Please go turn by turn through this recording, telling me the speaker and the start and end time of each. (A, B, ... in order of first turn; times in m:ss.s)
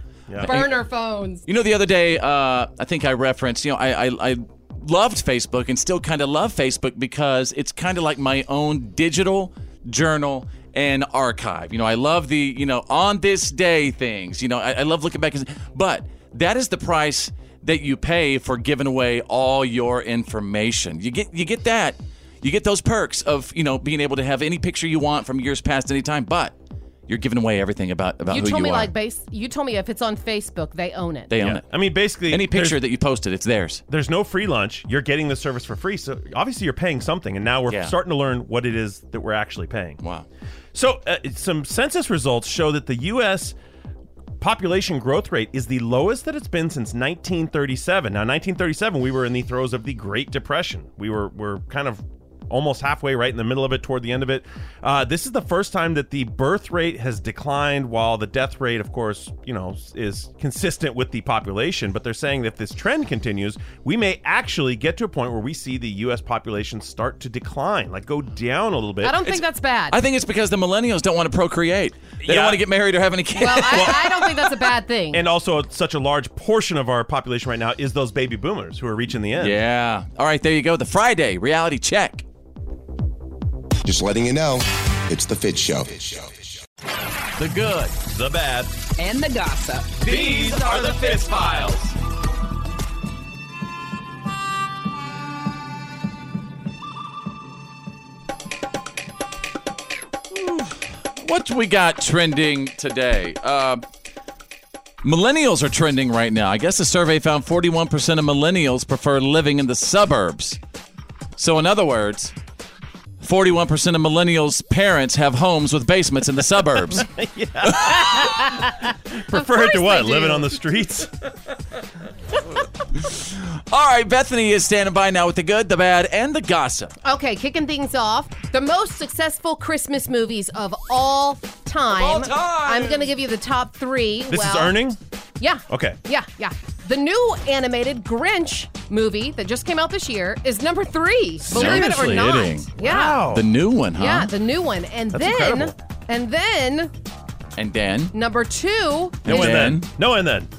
0:00.4-0:00.7 A
0:00.4-0:01.4 B
0:01.4-0:26.5 A
0:27.1-0:28.9 A
0:28.3-0:31.3 B
0:31.3-0:31.6 A
0:31.4-0:32.8 C
0:32.3-0:33.8 A
0:33.9-0:40.0 C
0:37.7-0:37.9 A
0:40.0-0:40.2 A
0:40.7-0:43.6 C
0:44.4-1:09.2 C
1:09.0-1:10.0 B
1:09.9-1:14.5 A
1:12.2-1:12.6 C
1:13.4-1:15.2 B
1:13.7-1:14.0 C
1:15.1-1:19.6 C
1:19.4-1:22.2 A
1:23.8-1:26.4 D
1:27.4-1:27.9 A
1:28.1-1:28.7 C
1:30.0-1:31.8 C
1:30.1-1:31.9 A
1:40.3-1:43.8 A
1:45.0-1:50.6 A
1:51.4-1:52.3 A
1:53.2-1:57.1 A
1:57.0-2:01.1 C
1:58.2-1:58.5 B
1:59.3-2:00.6 B
2:02.9-2:06.9 A
2:07.0-2:14.8 B
2:11.9-2:13.1 A
2:14.3-2:15.0 C
2:15.4-2:23.2 B
2:15.7-2:16.0 C
2:21.4-2:23.4 C
2:21.5-2:22.7 A
2:23.3-2:24.3 A
2:24.0-2:26.9 B
2:25.1-2:25.7 C
2:27.6-2:28.1 A
2:28.1-2:29.6 B
2:29.2-2:29.9 A
2:29.2-2:30.5 C